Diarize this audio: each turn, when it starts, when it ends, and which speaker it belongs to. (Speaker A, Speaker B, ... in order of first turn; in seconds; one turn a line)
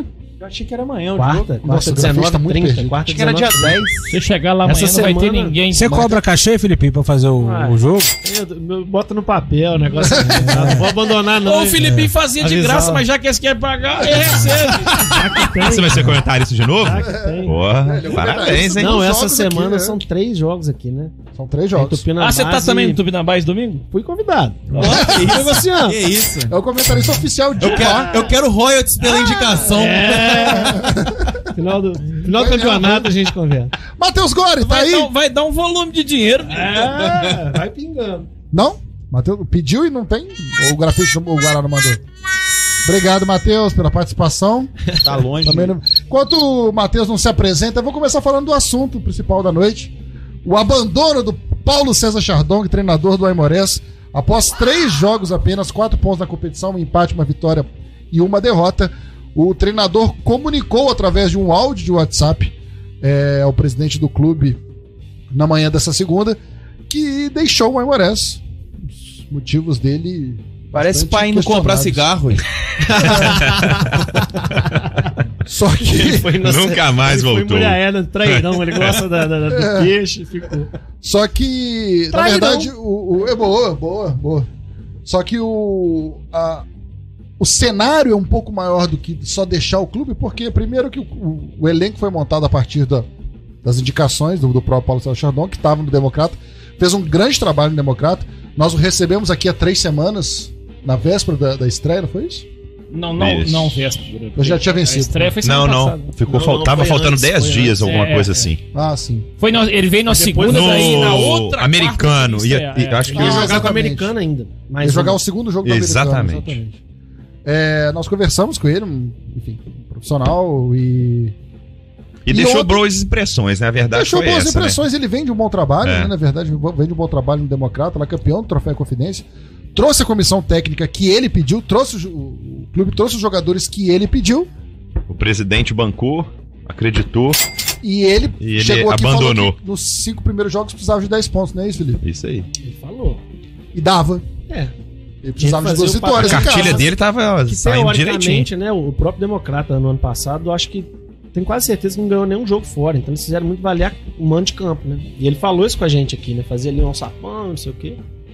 Speaker A: 0.4-1.6
Speaker B: 1.1-3.9
Speaker C: 1.6-3.0
Speaker A: 3.0-4.2
Speaker D: 4.1-6.1
Speaker B: 4.6-5.6
Speaker E: 5.7-8.1
Speaker C: 5.9-6.2
Speaker B: 7.3-11.9
Speaker C: 10.0-10.7
Speaker E: 10.2-11.0
Speaker D: 11.4-15.2
Speaker E: 11.8-12.1
Speaker B: 12.4-13.0
Speaker B: 14.9-16.2
Speaker F: 15.6-19.0
Speaker B: 16.8-17.5
Speaker C: 16.9-20.0
Speaker B: 18.5-21.1
Speaker C: 21.3-22.0
Speaker B: 21.7-23.0
Speaker D: 22.2-23.8
Speaker B: 23.9-26.0
Speaker A: 24.7-26.5
Speaker C: 24.8-25.5
Speaker C: 26.5-28.3
Speaker A: 27.6-30.6
Speaker B: 29.6-30.9
Speaker C: 30.1-31.4
Speaker B: 31.5-33.7
Speaker C: 32.3-33.1
Speaker C: 33.9-35.1
Speaker D: 34.6-37.4
Speaker B: 36.5-38.3
Speaker C: 38.5-42.0
Speaker C: 42.8-44.7
Speaker A: 45.0-45.7
Speaker C: 45.4-49.9
Speaker C: 50.4-64.6
Speaker C: 65.3-68.4
Speaker C: 69.1-72.0
Speaker A: 70.7-72.4
Speaker B: 72.8-73.8
Speaker C: 75.4-76.4
Speaker B: 75.8-80.7
Speaker F: 76.4-79.0
Speaker C: 79.5-79.9
Speaker C: 81.0-84.5
Speaker B: 82.1-82.7
Speaker C: 85.0-86.7
Speaker C: 87.4-93.1
Speaker C: 93.6-102.5
Speaker D: 102.9-106.1
Speaker F: 103.2-103.9
Speaker C: 104.3-105.4
Speaker F: 105.4-108.6
Speaker B: 106.3-108.0
Speaker D: 107.8-108.5
Speaker C: 108.7-109.3
Speaker D: 109.4-113.7
Speaker B: 110.1-111.1
Speaker F: 110.4-113.7
Speaker B: 113.1-115.2
Speaker C: 113.1-114.1
Speaker C: 114.8-116.8
Speaker F: 115.6-116.6
Speaker C: 117.4-121.3
Speaker F: 122.2-124.8
Speaker C: 122.3-122.8
Speaker C: 123.9-134.5
Speaker F: 125.8-126.1
Speaker F: 135.1-137.4
Speaker C: 137.8-142.0
Speaker F: 138.4-139.6
Speaker F: 142.0-142.5
Speaker B: 142.6-143.2
Speaker C: 143.7-144.2
Speaker C: 145.2-146.8
Speaker B: 145.4-146.9
Speaker F: 146.2-148.5
Speaker B: 147.4-158.0